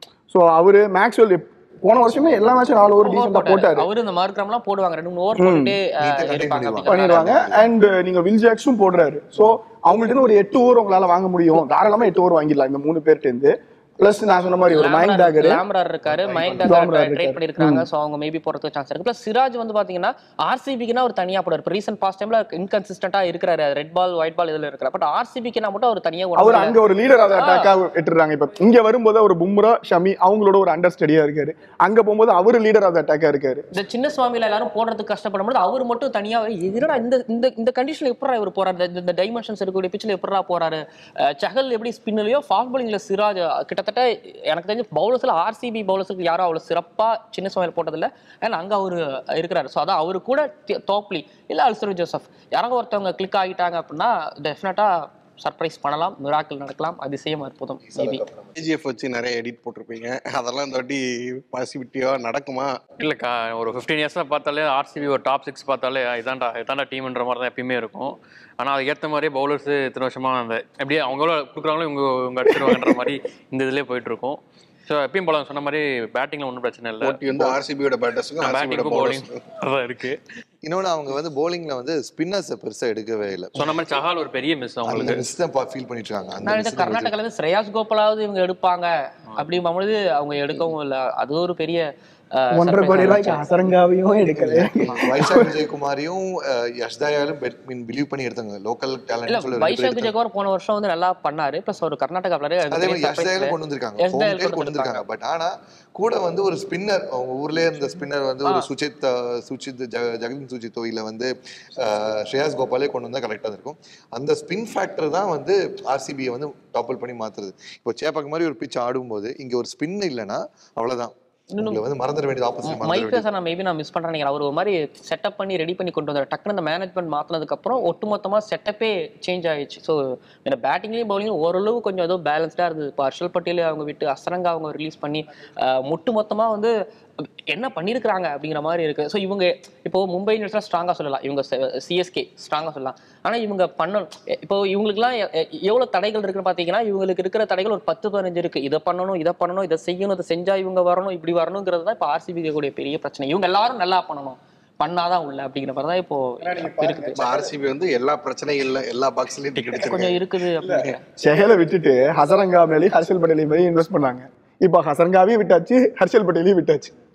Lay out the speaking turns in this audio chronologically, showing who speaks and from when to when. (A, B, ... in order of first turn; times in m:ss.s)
0:00.3-0:03.9 A
0:03.0-0:07.4 B
0:05.4-0:05.8 A
0:06.0-0:07.7 C
0:06.8-0:15.6 A
0:14.6-0:27.7 B
0:16.1-0:16.6 D
0:16.6-0:17.8 A
0:26.4-0:33.6 A
0:33.7-0:58.2 B
0:57.8-0:58.5 C
0:58.6-1:02.7 D
1:03.0-1:17.2 E
1:17.0-1:19.4 D
1:18.4-1:20.2 E
1:20.6-1:23.6 C
1:23.5-1:25.2 E
1:24.8-1:27.1 C
1:26.4-1:33.4 B
1:32.5-1:35.5 A
1:34.9-1:40.1 C
1:39.3-1:45.0 B
1:42.7-2:03.2 C
2:01.5-2:01.8 B
2:02.6-2:16.7 B
2:17.5-2:37.2 B
2:36.5-2:37.4 A
2:37.1-2:40.2 D
2:39.8-2:41.0 B
2:40.7-2:46.9 A